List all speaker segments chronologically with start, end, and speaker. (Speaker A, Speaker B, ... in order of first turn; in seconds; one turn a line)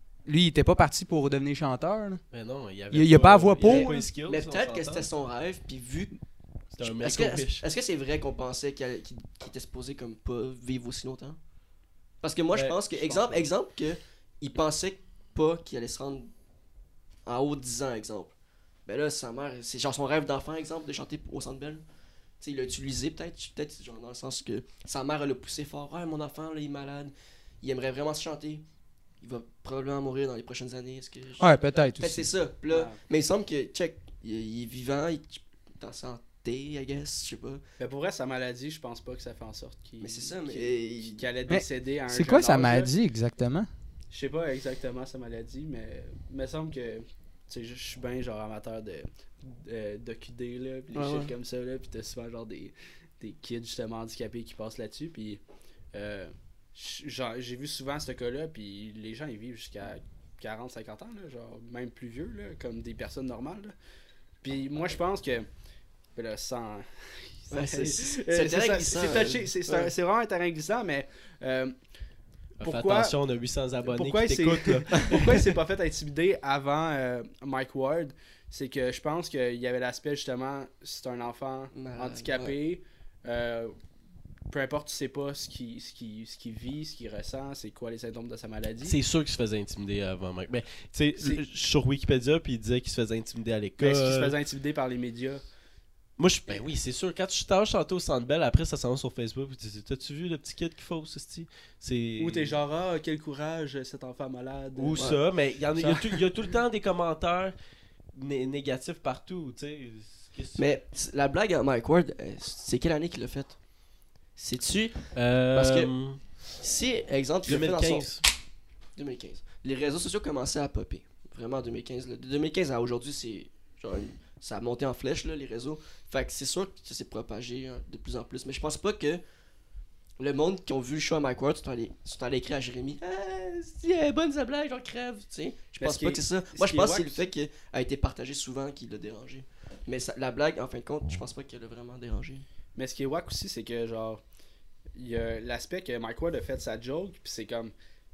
Speaker A: 0.2-2.2
Speaker B: 2.3-5.1
Speaker A: 2.9-4.1
Speaker C: 3.6-6.1
Speaker B: 6.7-7.6
Speaker C: 6.8-11.4
Speaker C: 12.2-16.3
Speaker D: 12.8-13.5
Speaker C: 17.2-18.3
Speaker C: 18.9-21.8
Speaker C: 22.4-28.6
Speaker C: 29.2-37.6
Speaker A: 31.4-32.3
Speaker D: 32.7-33.0
Speaker D: 37.8-42.9
Speaker C: 40.0-41.2
Speaker A: 41.5-43.7
Speaker D: 44.1-55.4
Speaker C: 50.9-51.3
Speaker D: 55.9-63.7
Speaker D: 64.4-65.5
Speaker D: 66.2-66.9
Speaker D: 67.4-71.8
Speaker C: 67.5-69.9
Speaker B: 72.6-75.4
Speaker D: 72.6-73.2
Speaker D: 73.9-83.8
Speaker C: 81.7-82.6
Speaker D: 84.5-89.0
Speaker B: 88.8-94.3
Speaker D: 93.8-95.4
Speaker B: 96.2-102.5
Speaker D: 102.2-105.1
Speaker B: 104.7-107.5
Speaker C: 104.9-105.2
Speaker D: 105.8-106.2
Speaker B: 108.1-110.8
Speaker C: 110.5-113.6
Speaker C: 114.3-118.2
Speaker B: 115.1-116.2
Speaker B: 117.4-118.2
Speaker C: 118.9-129.2
Speaker C: 130.2-142.4
Speaker D: 135.8-137.2
Speaker D: 142.7-144.2
Speaker D: 144.9-147.7